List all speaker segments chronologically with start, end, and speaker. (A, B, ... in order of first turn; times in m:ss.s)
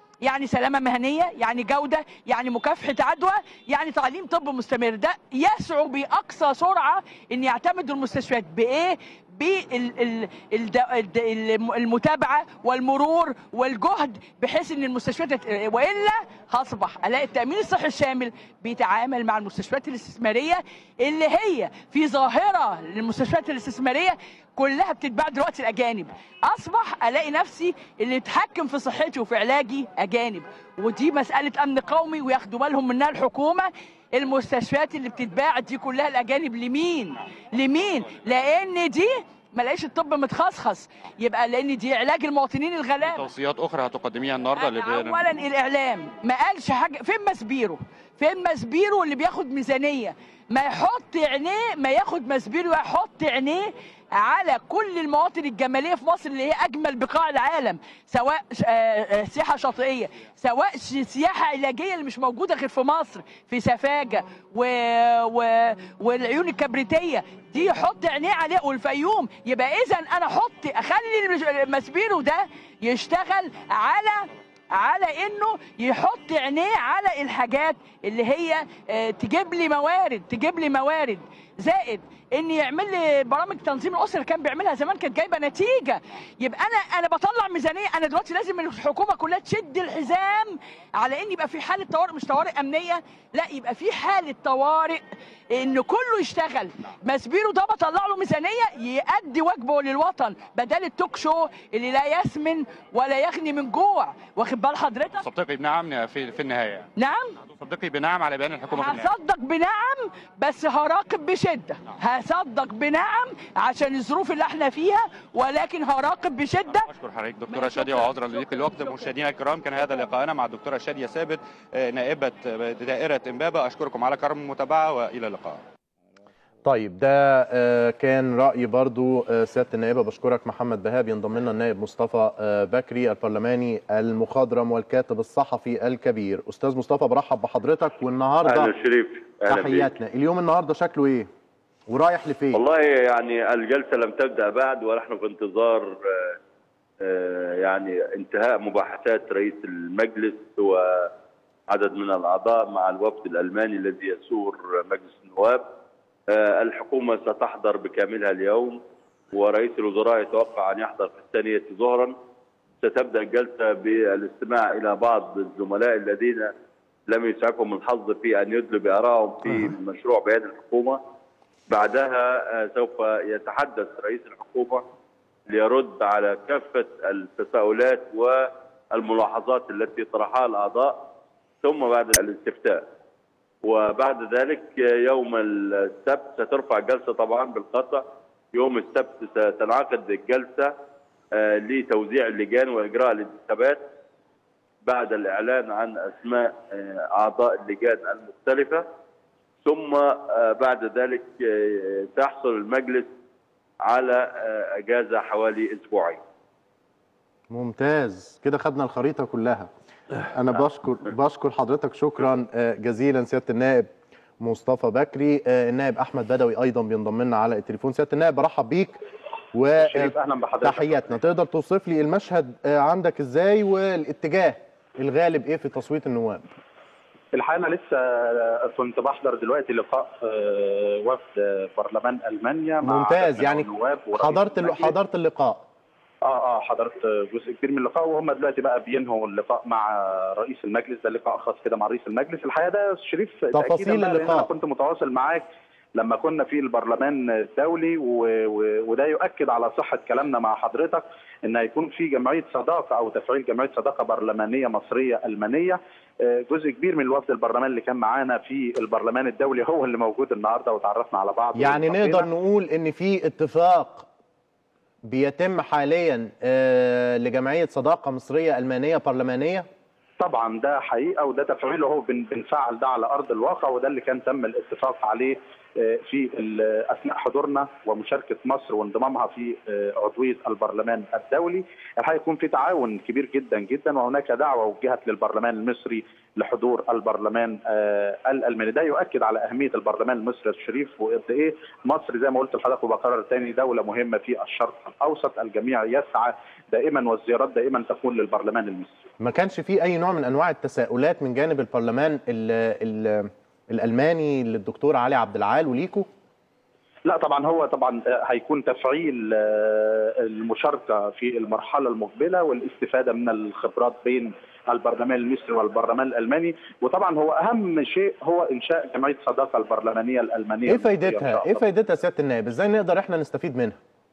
0:00.2-0:43.3 A
0:43.0-0:45.2 B
0:44.5-1:45.2 A
1:45.2-1:46.9 B
1:47.0-1:47.4 A
1:47.5-1:49.1 B
1:48.7-1:56.9 A
1:56.9-2:05.6 B
1:57.5-1:59.1 A
2:06.6-2:18.7 C
2:18.4-2:19.9 D
2:19.5-2:21.3 C
2:21.9-2:22.6 C
2:22.5-2:26.4 D
2:27.0-2:31.1 D
2:31.7-2:35.7 D
2:36.3-2:38.8 D
2:39.3-2:42.2 D
2:42.8-2:46.5 D
2:47.1-2:51.0 D
2:51.7-2:54.8 D
2:55.5-3:01.1 D
3:01.6-3:02.9 D
3:03.6-3:10.7 D
3:11.3-3:13.8 D
3:14.8-3:18.9 D
3:19.6-3:23.1 D
3:23.9-3:26.2 D
3:27.5-3:29.7 C
3:30.3-3:33.9 C
3:34.4-3:39.0 C
3:39.5-3:46.4 C
3:39.8-3:41.0 E
3:47.3-3:54.9 E
3:52.8-3:55.6 C
3:56.2-4:05.4 E
4:03.5-4:04.5 C
4:05.9-4:22.3 E
4:21.5-4:24.1 C
4:25.0-4:29.6 C
4:30.2-4:59.0 E
4:59.2-5:06.1 C
5:07.0-5:21.6 E
5:20.7-5:23.8 C